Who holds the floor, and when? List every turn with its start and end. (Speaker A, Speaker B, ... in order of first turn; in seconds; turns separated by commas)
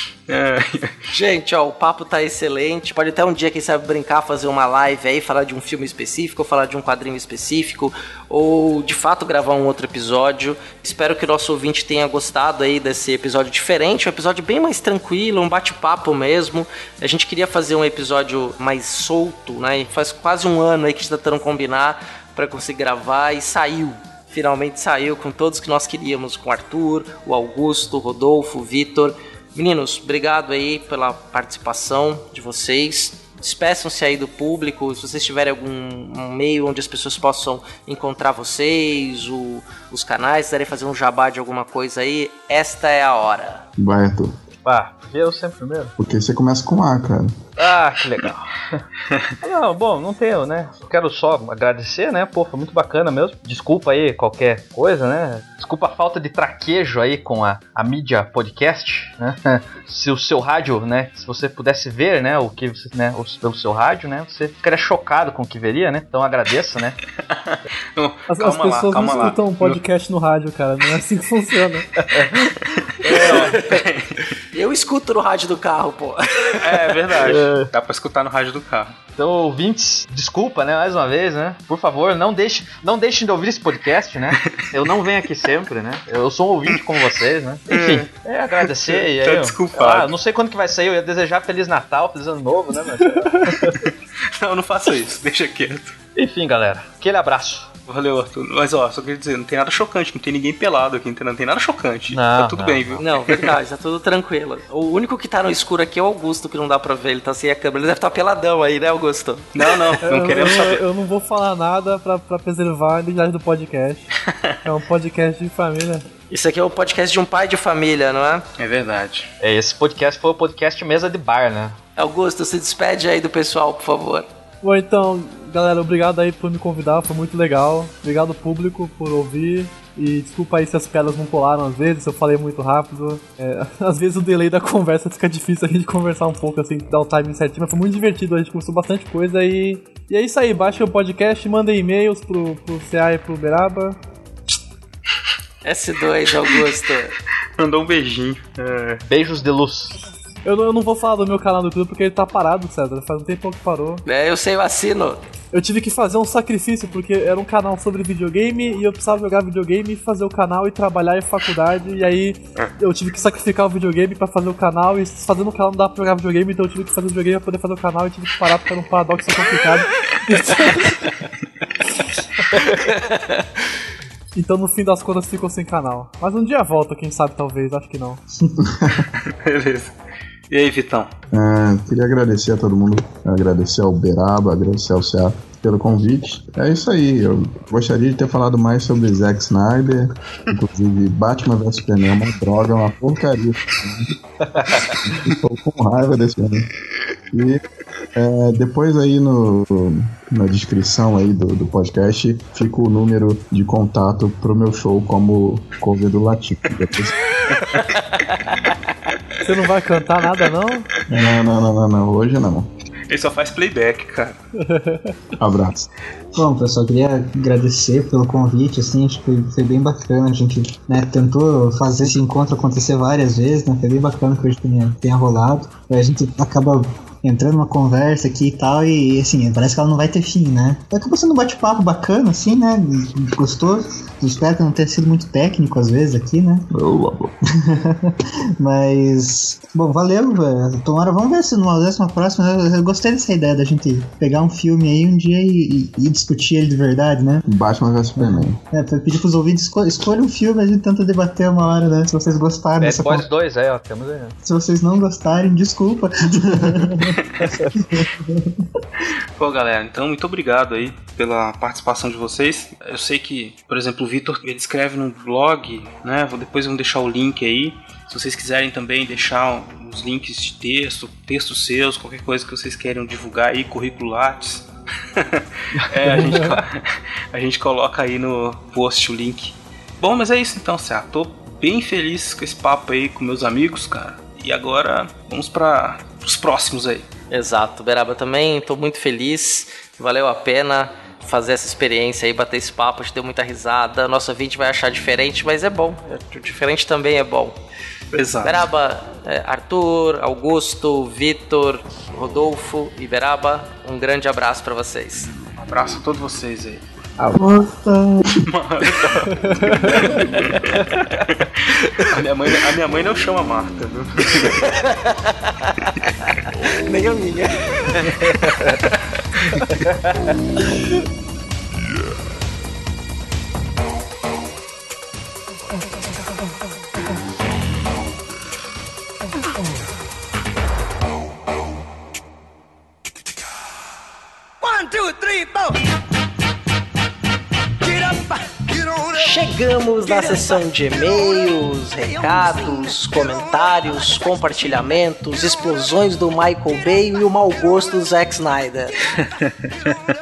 Speaker A: 0.3-1.1, Speaker B: 1.1-43.6, Speaker C: 43.8-44.4, Speaker D: 44.6-45.9, Speaker C: 46.0-47.4, Speaker D: 47.6-48.9, Speaker D: 49.4-67.0, Speaker A: 67.4-69.8, Speaker E: 68.3-71.9, Speaker D: 72.1-72.5, Speaker A: 72.7-74.3, Speaker B: 73.1-73.8, Speaker B: 74.5-77.1, Speaker A: 76.6-79.0, Speaker D: 77.2-77.7, Speaker D: 79.2-93.8, Speaker A: 87.7-90.1, Speaker A: 93.8-96.0, Speaker D: 96.2-97.7, Speaker A: 97.9-103.5, Speaker D: 102.1-103.0, Speaker B: 103.0-109.5, Speaker A: 109.5-110.8, Speaker E: 110.0-114.1, Speaker E: 114.7-116.1, Speaker B: 116.3-118.5, Speaker A: 118.6-119.3, Speaker D: 119.4-121.8, Speaker B: 122.0-124.3, Speaker E: 124.6-144.0, Speaker B: 145.6-147.1, Speaker A: 147.6-149.0, Speaker D: 149.1-150.0, Speaker E: 150.4-154.0, Speaker B: 154.1-155.2, Speaker E: 155.5-171.2, Speaker E: 174.3-178.2, Speaker C: 178.6-179.1, Speaker A: 179.2-179.9, Speaker A: 180.5-181.1, Speaker C: 181.3-194.2, Speaker C: 194.7-196.7, Speaker C: 197.3-197.6, Speaker C: 198.2-207.2, Speaker B: 207.7-208.7, Speaker E: 209.4-210.9, Speaker C: 211.1-212.7, Speaker A: 213.1-214.4, Speaker E: 214.6-215.1, Speaker C: 215.4-215.9, Speaker F: 216.3-236.7, Speaker C: 236.7-237.3, Speaker F: 237.6-247.4, Speaker C: 247.5-248.6, Speaker F: 248.2-253.3, Speaker D: 252.8-254.4, Speaker F: 254.4-258.5, Speaker A: 259.4-287.1, Speaker D: 275.9-276.6, Speaker B: 287.3-297.6, Speaker A: 298.1-298.7, Speaker B: 298.4-305.3, Speaker A: 305.6-306.8, Speaker F: 307.3-308.2, Speaker C: 307.4-307.6, Speaker A: 308.5-314.6, Speaker E: 309.5-309.8, Speaker B: 314.5-318.8, Speaker G: 334.6-335.8, Speaker G: 337.8-339.4, Speaker B: 339.1-349.0, Speaker G: 340.1-341.2, Speaker G: 342.2-342.9, Speaker A: 349.2-350.0